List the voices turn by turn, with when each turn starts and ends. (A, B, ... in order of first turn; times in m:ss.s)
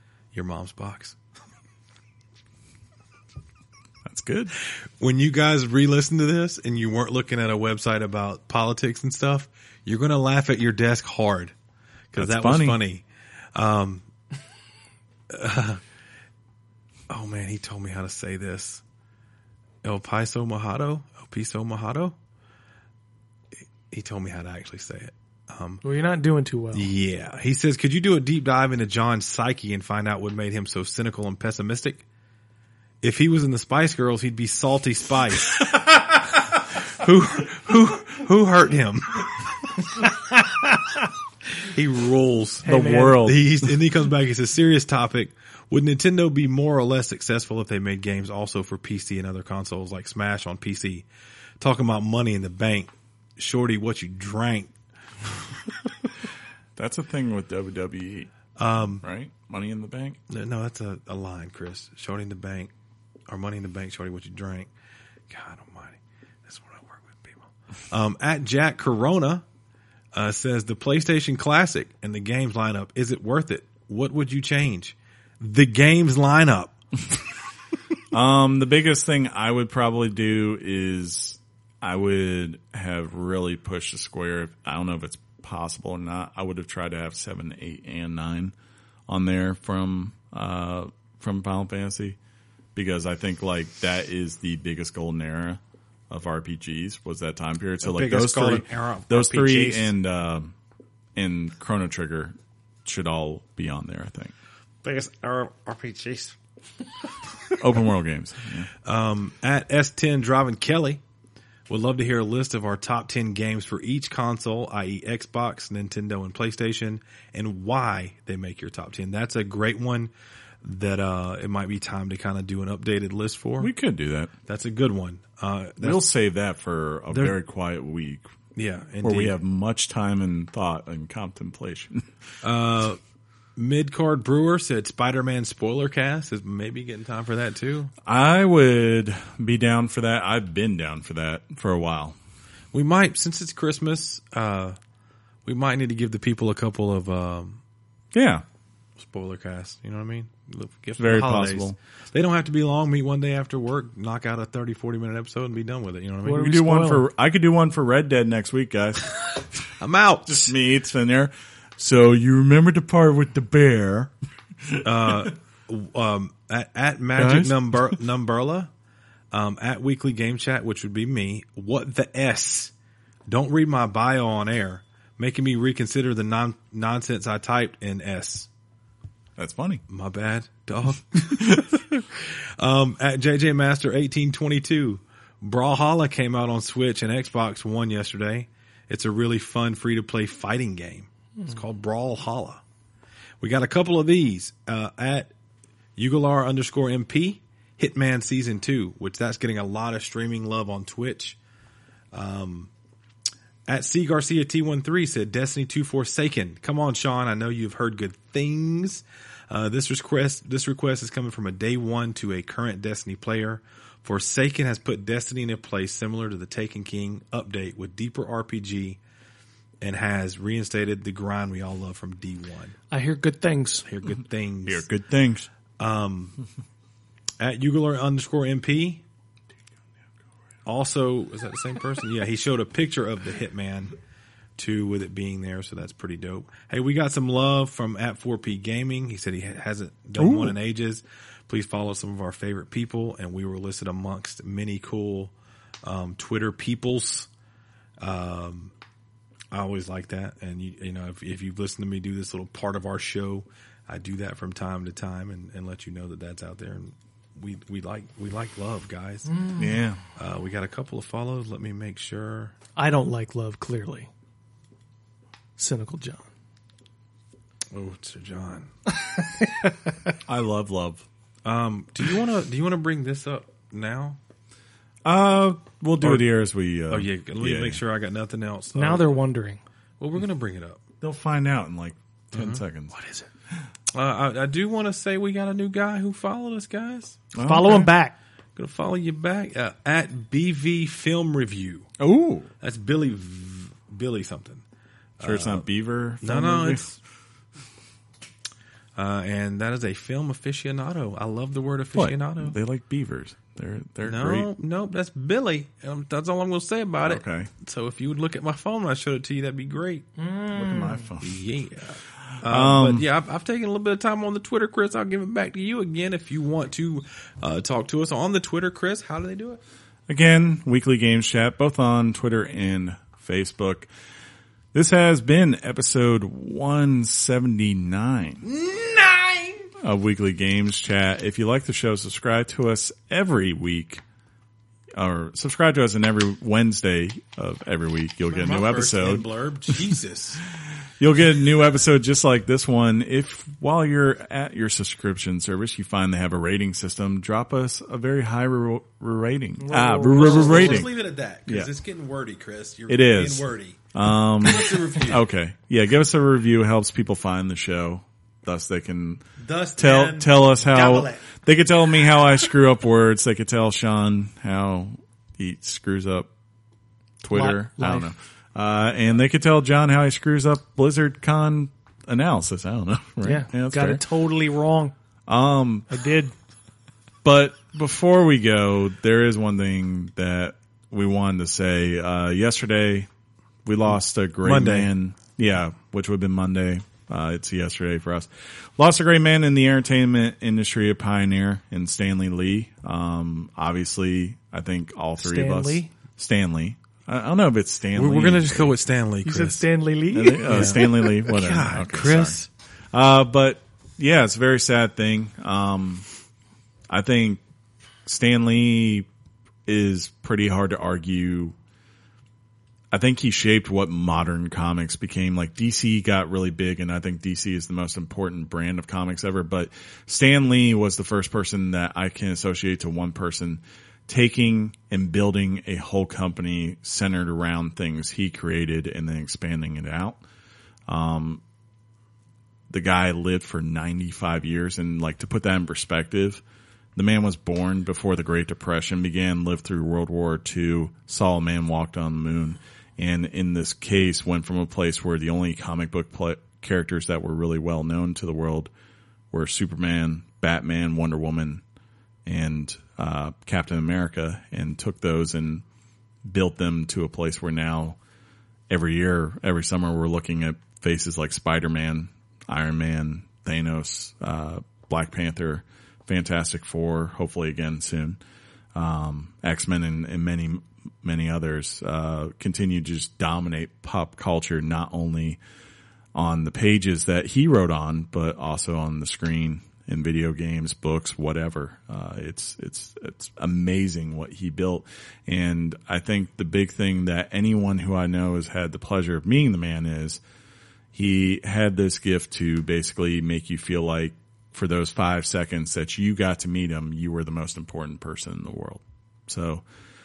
0:00.3-0:01.2 A
0:04.0-0:04.5 B
0:05.0-0:11.5 A
0:12.1-0:13.0 A
0:12.2-0:12.8 B
0:13.5-0:14.0 A
0:15.3-0:15.8 A
0:17.1-0:18.8 A
0:19.8-0:22.1 A
0:23.9-0:25.8 A
0:25.8-0:26.9 C
0:26.7-0:32.0 A
0:33.0-0:40.7 A
0:41.6-0:51.0 A
0:42.6-0:43.3 C
0:42.6-0:43.7 B
0:51.6-0:54.7 A
0:56.8-0:58.3 B
0:58.6-0:59.0 A
0:59.0-1:00.2 B
1:00.3-1:02.7 A
1:03.3-1:04.7 A
1:05.3-1:09.4 A
1:10.1-1:16.8 A
1:18.1-1:28.5 B
1:29.1-1:32.2 B
1:32.7-1:40.5 B
1:37.8-1:39.9 A
1:41.2-1:44.3 B
1:44.8-1:46.3 A
1:47.6-1:48.7 B
1:48.8-1:51.0 A
1:51.7-2:00.1 A
2:00.6-2:03.7 A
2:03.6-2:04.3 B
2:04.5-2:06.0 A
2:05.8-2:08.2 B
2:07.1-2:07.4 A
2:08.5-2:09.3 A
2:09.0-2:12.1 B
2:12.4-2:13.0 A
2:13.6-2:17.9 A
2:18.0-2:22.2 B
2:22.7-2:24.8 A
2:25.4-2:27.6 A
2:28.1-2:28.4 B
2:29.0-2:36.4 A
2:31.0-2:31.8 B
2:36.2-2:37.1 C
2:36.3-2:39.4 B
2:39.8-2:40.5 A
2:40.2-2:44.1 B
2:44.8-2:48.7 A
2:47.1-2:47.8 B
2:49.3-2:52.7 A
2:53.3-2:58.5 A
2:59.4-2:59.8 B
2:59.9-3:12.6 A
3:13.4-3:15.3 A
3:16.0-3:21.4 A
3:22.1-3:22.7 A
3:23.7-3:39.0 A
3:39.8-3:42.8 A
3:42.9-3:43.9 C
3:43.8-3:44.9 A
3:44.6-3:45.5 B
3:45.8-3:46.4 A
3:47.4-3:49.0 A
3:50.6-3:54.0 A
3:54.6-4:05.3 A
4:00.2-4:00.6 B
4:05.8-4:07.3 A
4:08.0-4:08.7 A
4:09.5-4:19.4 A
4:19.3-4:19.8 C
4:19.6-4:20.0 B
4:20.2-4:22.5 A
4:22.8-4:24.1 C
4:25.6-4:26.2 C
4:27.7-4:28.7 A
4:29.0-4:29.7 C
4:30.2-4:31.0 B
4:31.4-4:34.2 A
4:35.0-4:37.8 B
4:36.0-4:36.3 A
4:36.9-4:39.2 A
4:38.8-4:39.6 C
4:40.0-4:40.8 A
4:41.0-4:42.9 B
4:42.3-4:42.6 A
4:42.9-4:43.2 C
4:43.9-4:47.2 A
4:47.3-4:47.9 B
4:47.4-4:48.2 C
4:48.6-4:51.9 A
4:52.0-4:52.5 B
4:52.6-4:54.6 A
4:55.2-4:55.6 A
4:55.2-4:56.8 B
4:56.2-4:57.0 A
4:59.0-5:02.6 A
5:01.9-5:04.5 B
5:04.0-5:10.1 A
5:07.0-5:07.5 B
5:10.2-5:11.1 C
5:10.5-5:11.3 B
5:11.2-5:19.6 A
5:12.4-5:13.0 B
5:20.1-5:23.9 B
5:24.7-5:28.4 B
5:28.4-5:29.7 A
5:29.8-5:34.0 B
5:35.0-5:39.9 B
5:38.3-5:40.4 A
5:41.0-5:50.9 B
5:49.6-5:50.9 C
5:50.0-5:53.8 A
5:52.9-5:59.2 B
5:54.4-5:55.2 A
5:59.4-6:01.2 A
5:59.8-6:06.3 B
6:07.2-6:14.0 B
6:07.3-6:08.1 C
6:13.2-6:14.9 C
6:15.3-6:15.9 B
6:15.9-6:16.3 C
6:17.2-6:23.1 B
6:23.6-6:38.7 B
6:24.4-6:24.9 A
6:35.2-6:35.9 C
6:37.9-6:39.6 A
6:39.2-6:40.8 C
6:40.1-6:42.4 B
6:40.5-6:42.5 A
6:42.9-6:46.0 B
6:46.9-6:47.4 B
6:48.0-6:49.1 B
6:49.6-6:51.6 B
6:52.9-7:10.2 B
7:10.9-7:11.4 B
7:12.7-7:16.4 B
7:16.9-7:28.7 B
7:29.3-7:31.6 B
7:32.2-7:35.6 B
7:36.2-7:38.0 B
7:38.7-7:48.2 B
7:48.7-7:55.4 B
7:56.1-8:10.2 B
8:10.9-8:19.6 B